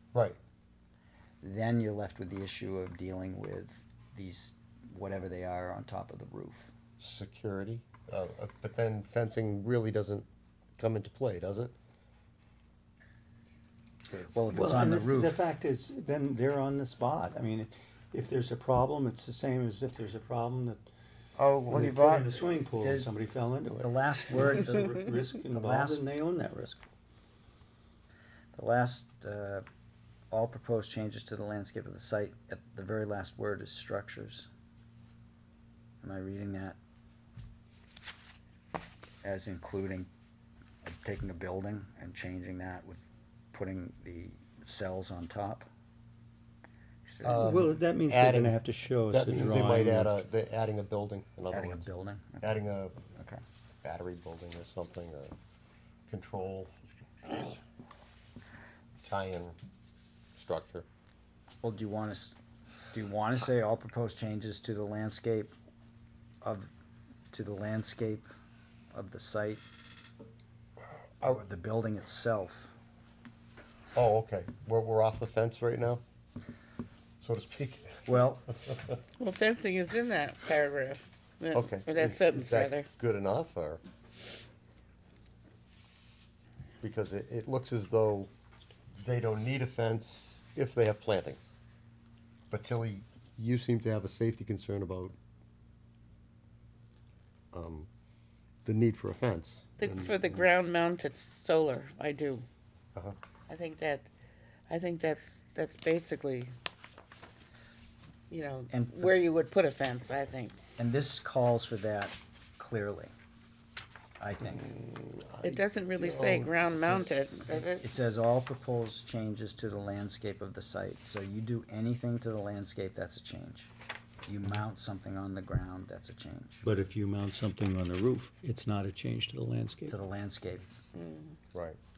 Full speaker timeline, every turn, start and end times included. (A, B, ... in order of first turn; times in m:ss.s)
0:01.4-0:06.7 A
0:07.0-0:10.3 B
0:10.8-0:11.7 B
0:14.1-0:15.5 A
0:14.5-0:20.8 C
0:21.4-0:22.3 B
0:21.7-0:26.8 C
0:22.8-0:23.1 A
0:23.8-0:26.1 A
0:28.5-0:29.6 A
0:30.3-0:34.5 A
0:36.0-0:36.8 A
0:39.2-0:40.1 A
0:40.8-0:43.0 A
0:43.5-0:45.7 A
0:47.0-0:47.5 A
0:47.2-0:51.9 B
0:47.4-0:50.2 C
0:51.5-0:52.6 A
0:52.4-0:53.0 B
0:53.1-0:53.4 A
0:53.8-0:55.3 B
0:56.1-0:56.7 B
0:59.0-0:59.6 B
1:00.4-1:00.8 B
1:01.6-1:02.4 A
1:02.9-1:05.5 A
1:06.4-1:06.7 A
1:07.3-1:08.3 A
1:08.9-1:09.6 A
1:11.2-1:12.7 A
1:13.9-1:16.0 B
1:17.2-1:19.0 B
1:18.1-1:18.4 A
1:19.2-1:22.9 D
1:21.5-1:23.8 B
1:26.8-1:28.3 B
1:29.0-1:31.5 B
1:32.5-1:35.1 B
1:37.5-1:37.9 B
1:38.6-1:40.5 B
1:39.8-1:42.4 D
1:43.5-1:44.1 D
1:44.7-1:46.5 D
1:48.3-1:50.6 D
1:48.7-1:49.2 A
1:50.8-1:53.1 A
1:54.2-1:54.7 A
1:54.5-1:57.6 B
1:55.4-1:57.9 D
1:57.6-2:03.7 A
2:04.3-2:06.6 A
2:06.6-2:10.0 C
2:09.9-2:10.6 A
2:11.0-2:11.4 D